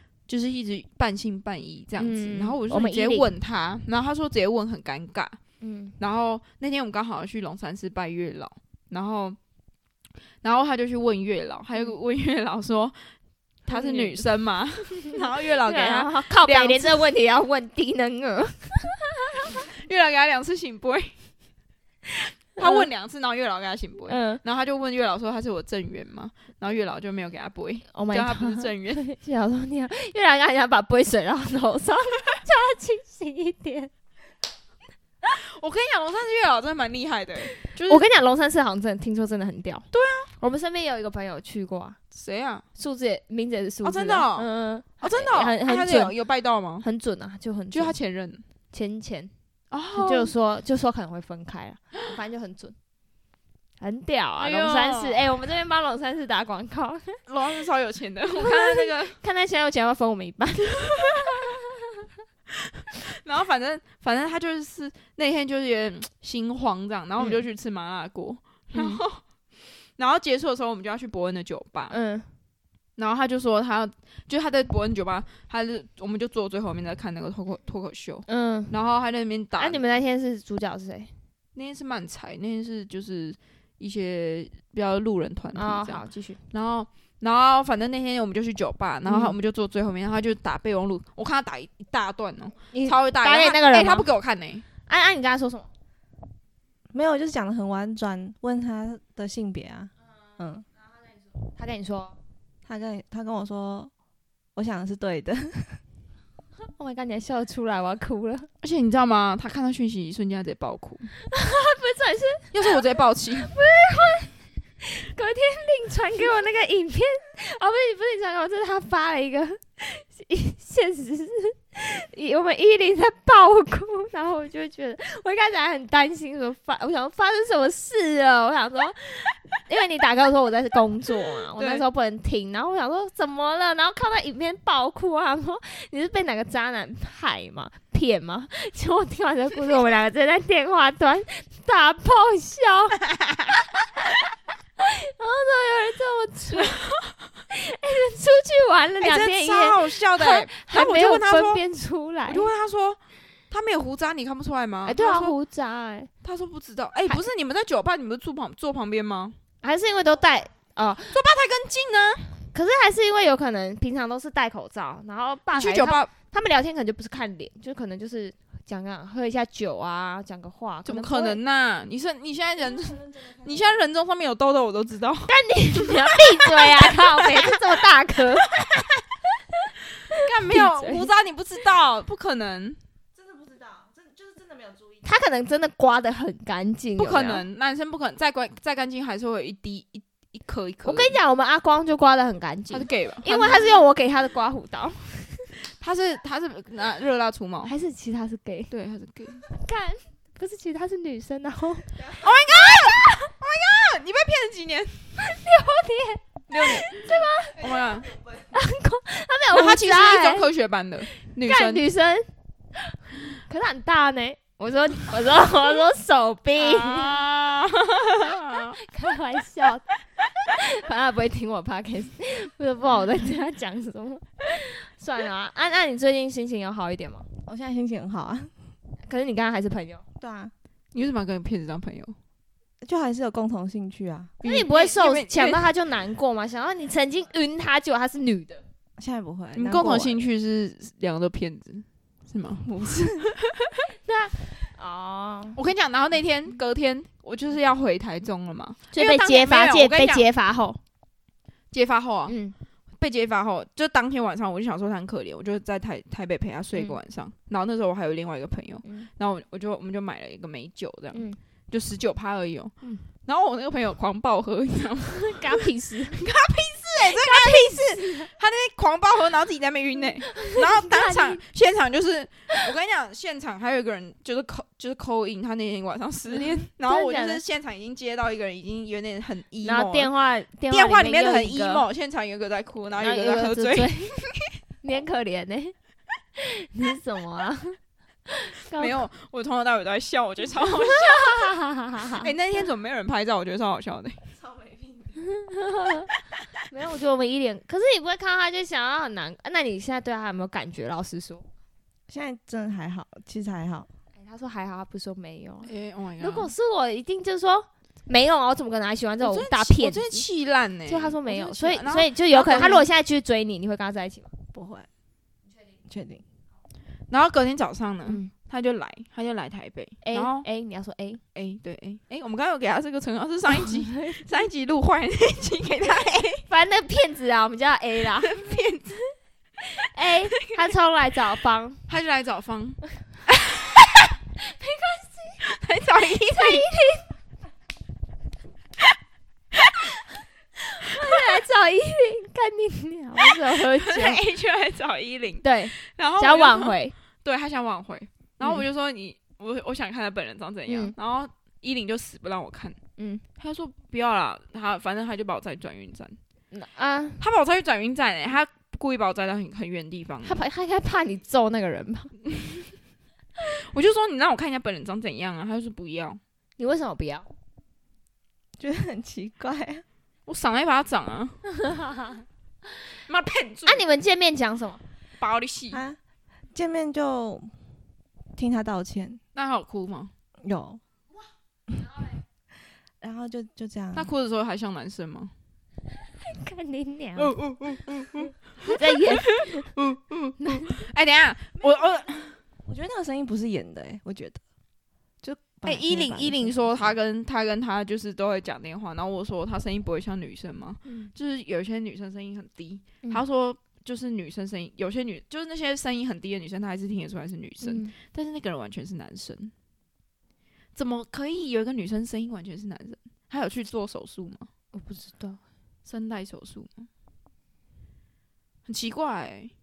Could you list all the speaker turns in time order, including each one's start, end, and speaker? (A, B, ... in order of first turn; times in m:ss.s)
0:00.3-0:05.4 A
0:02.0-0:03.3 B
0:05.6-0:06.0 B
0:06.0-0:09.4 A
0:10.4-0:13.1 A
0:13.6-0:17.0 A
0:13.7-0:14.2 B
0:15.6-0:19.5 B
0:19.5-0:21.2 A
0:22.6-0:29.0 A
0:22.6-0:22.9 B
0:24.1-0:24.4 B
0:27.9-0:33.9 B
0:35.3-0:38.0 A
0:37.6-0:39.8 B
0:39.9-0:40.3 A
0:40.4-0:42.0 B
0:42.1-0:42.6 A
0:42.8-0:46.2 B
0:43.8-0:44.5 A
0:45.0-0:46.8 A
0:46.8-0:48.0 B
0:47.7-0:48.4 A
0:48.7-0:49.3 B
0:49.7-0:50.3 A
0:49.9-0:52.8 B
0:53.8-0:57.2 B
0:54.4-0:55.2 A
0:57.3-0:59.2 A
0:58.4-1:01.6 B
1:02.9-1:09.2 A
1:07.2-1:07.4 B
1:08.7-1:09.0 B
1:10.0-1:12.0 A
1:11.9-1:12.3 B
1:13.0-1:19.8 A
1:18.3-1:18.8 B
1:19.6-1:21.1 B
1:21.6-1:34.6 A
1:25.6-1:26.4 B
1:29.1-1:29.4 B
1:32.7-1:34.1 B
1:34.9-1:35.7 B
1:36.9-1:40.7 C
1:41.5-1:42.2 B
1:42.7-1:43.9 C
1:44.6-1:45.8 C
1:46.8-1:48.5 B
1:48.6-1:51.1 A
1:51.3-1:52.6 B
1:52.5-1:53.5 A
1:53.4-2:23.0 B
2:11.6-2:11.8 A
2:24.8-2:26.8 B
2:26.6-2:26.9 A
2:27.5-2:32.5 B
2:29.0-2:31.6 A
2:32.3-2:33.0 A
2:33.5-2:35.3 A
2:34.8-2:36.1 B
2:36.2-2:39.4 A
2:39.6-2:41.2 B
2:41.1-2:42.3 A
2:42.5-2:51.4 B
2:45.6-2:46.1 A
2:50.8-2:57.5 A
2:52.9-2:53.5 C
2:55.3-2:58.5 B
2:58.6-2:58.8 A
3:00.1-3:02.8 A
3:00.1-3:01.1 B
3:03.2-3:05.0 C
3:05.0-3:07.4 B
3:07.0-3:11.2 A
3:10.8-3:15.5 B
3:12.7-3:13.8 A
3:15.7-3:17.7 A
3:17.6-3:18.7 B
3:18.7-3:19.4 A
3:19.5-3:23.2 B
3:22.1-3:25.1 A
3:25.2-3:27.7 B
3:26.5-3:28.1 A
3:28.4-3:30.5 B
3:29.5-3:31.8 A
3:31.3-3:32.3 B
3:33.5-3:37.2 B
3:36.6-3:38.8 A
3:38.8-3:39.8 B
3:40.5-3:47.3 B
3:47.4-3:48.5 C
3:49.0-3:50.0 B
3:50.2-3:50.5 C
3:50.9-3:52.2 A
3:52.8-3:54.3 C
3:54.4-3:55.7 A
3:54.4-3:58.6 B
3:59.0-4:00.2 C
3:59.5-4:03.5 A
4:02.7-4:03.0 C
4:04.0-4:05.6 B
4:05.6-4:10.3 A
4:08.9-4:10.8 B
4:11.7-4:12.4 A
4:12.3-4:12.6 B
4:13.0-4:22.7 A
4:18.8-4:19.1 B
4:21.1-4:21.4 B
4:23.2-4:40.1 A
4:25.1-4:26.2 B
4:27.0-4:28.3 B
4:30.2-4:31.4 B
4:36.3-4:37.4 B
4:39.6-4:41.9 B
4:40.7-4:44.4 A
4:43.0-4:44.2 B
4:44.8-4:45.7 B
4:46.4-4:47.8 B
4:48.3-4:49.0 B
4:48.8-4:51.6 A
4:51.2-4:52.3 B
4:52.1-4:54.2 A
4:54.4-4:55.2 C
4:55.3-4:56.1 B
4:56.7-5:01.5 B
5:02.1-5:03.9 C
5:04.2-5:10.3 B
5:05.6-5:06.5 A
5:09.2-5:12.9 A
5:10.9-5:14.3 B
5:14.5-5:14.9 C
5:15.9-5:16.2 C
5:17.1-5:20.5 A
5:18.1-5:18.3 B
5:20.0-5:21.2 B
5:21.4-5:26.4 A
5:23.6-5:24.2 B
5:26.5-5:28.4 B
5:28.2-5:29.1 A
5:29.8-5:31.8 B
5:31.9-5:32.8 A
5:33.8-5:34.0 A
5:34.4-5:35.4 B
5:35.5-5:36.7 A
5:36.2-5:37.1 B
5:40.8-5:44.2 B
5:43.6-5:52.8 A
5:45.4-5:47.0 B
5:50.7-5:51.0 B
5:53.0-5:53.2 B
5:53.4-5:56.2 A
5:56.5-5:57.2 B
5:57.2-6:00.4 A
6:00.2-6:02.2 B
6:03.5-6:06.2 A
6:06.6-6:07.3 B
6:08.6-6:09.8 C
6:10.3-6:11.4 A
6:11.7-6:12.1 B
6:13.1-6:13.8 A
6:13.7-6:14.8 B
6:15.2-6:15.8 A
6:15.7-6:16.0 C
6:16.5-6:17.5 C
6:18.4-6:19.2 C
6:19.4-6:20.1 A
6:20.4-6:20.8 C
6:23.0-6:24.1 C
6:23.9-6:25.3 A
6:26.2-6:27.4 B
6:27.2-6:32.4 A
6:28.7-6:29.7 B
6:30.4-6:30.7 B
6:32.6-6:34.4 C
6:35.2-6:36.9 C
6:35.6-6:49.5 A
6:40.9-6:41.1 B
6:47.6-6:47.9 B
6:50.8-6:54.5 A
6:54.7-6:55.4 B
6:55.9-6:56.9 A
6:58.7-6:59.5 A